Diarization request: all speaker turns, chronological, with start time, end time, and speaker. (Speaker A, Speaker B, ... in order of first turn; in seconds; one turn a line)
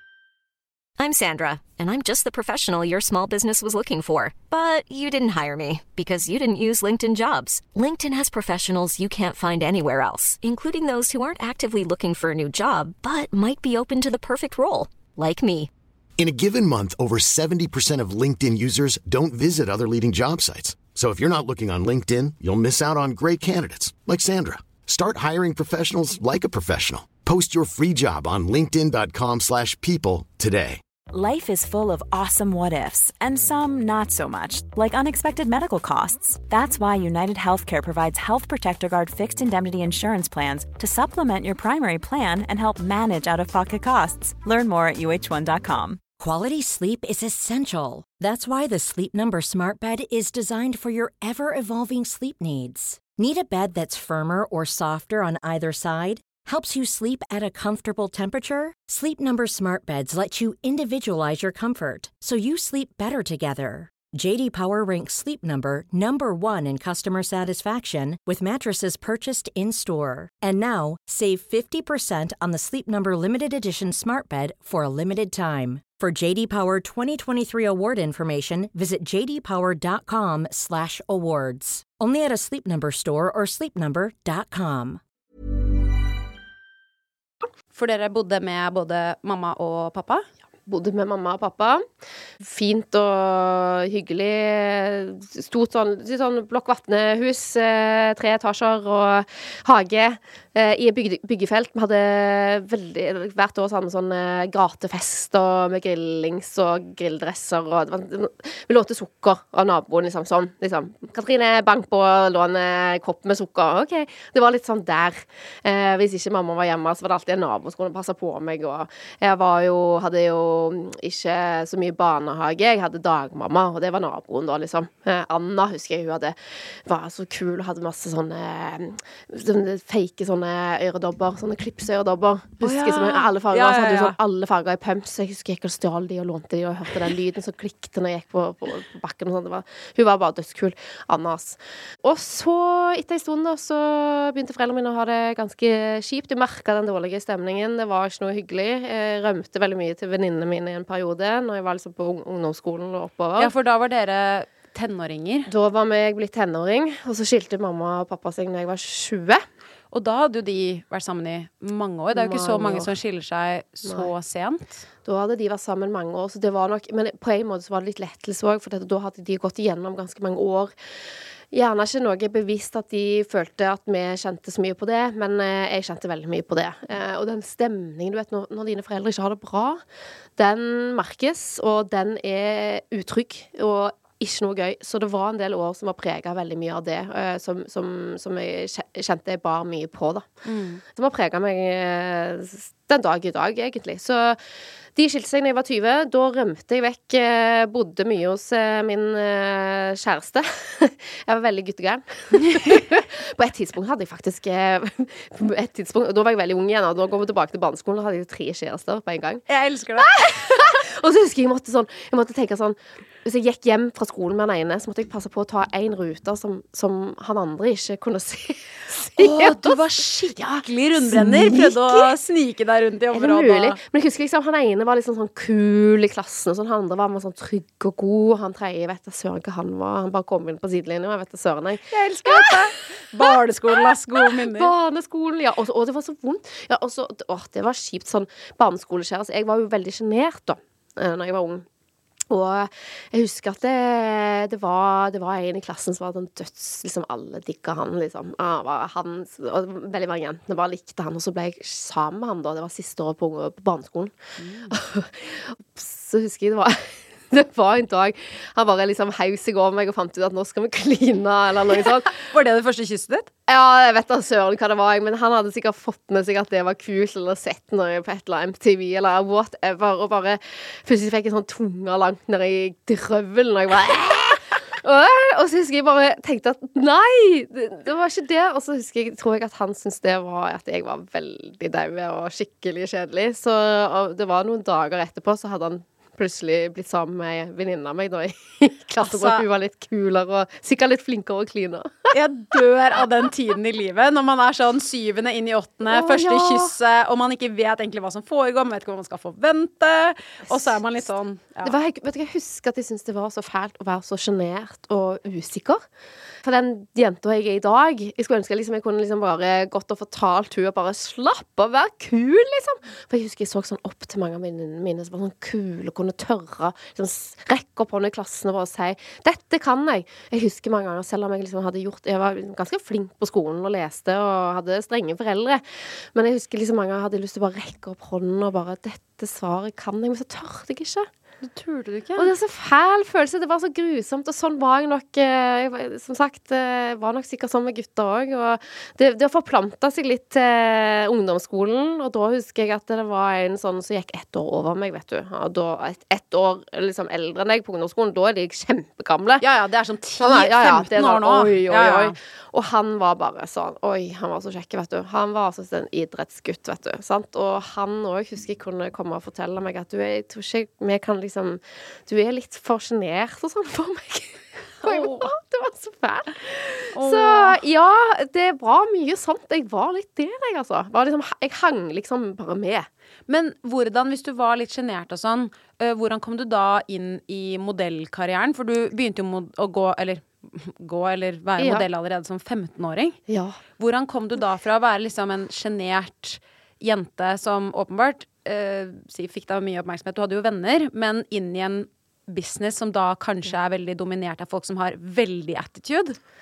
Speaker A: 1.0-15.7
Speaker B: 16.2-30.8
Speaker C: 31.1-46.0
Speaker D: 46.2-85.0
Speaker E: 87.7-90.2
Speaker F: 90.7-91.8
Speaker F: 92.4-153.5
Speaker E: 132.6-134.2
Speaker E: 153.4-155.5
Speaker F: 155.5-159.4
Speaker E: 159.9-164.8
Speaker F: 162.1-162.9
Speaker F: 163.8-164.1
Speaker F: 165.0-170.7
Speaker F: 171.5-179.8
Speaker F: 180.4-190.3
Speaker E: 190.4-190.8
Speaker F: 190.9-194.4
Speaker F: 194.9-209.4
Speaker E: 209.5-210.2
Speaker F: 210.0-219.8
Speaker E: 219.2-223.8
Speaker F: 220.3-222.1
Speaker F: 223.1-232.7
Speaker E: 231.9-234.7
Speaker F: 233.2-241.6
Speaker F: 242.3-254.1
Speaker E: 254.4-254.7
Speaker F: 254.7-262.1
Speaker E: 262.1-263.3
Speaker F: 263.5-292.1
Speaker E: 289.0-289.4
Speaker E: 292.1-301.7
Speaker F: 295.9-296.7
Speaker F: 300.5-300.8
Speaker F: 301.6-305.8
Speaker F: 306.4-331.1
Speaker E: 331.4-332.3
Speaker F: 332.1-349.4
Speaker E: 349.4-352.1
Speaker F: 350.2-372.9
Speaker E: 364.8-365.3
Speaker E: 366.9-367.6
Speaker E: 373.3-383.2
Speaker F: 381.6-381.8
Speaker F: 383.3-383.6
Speaker E: 383.8-396.2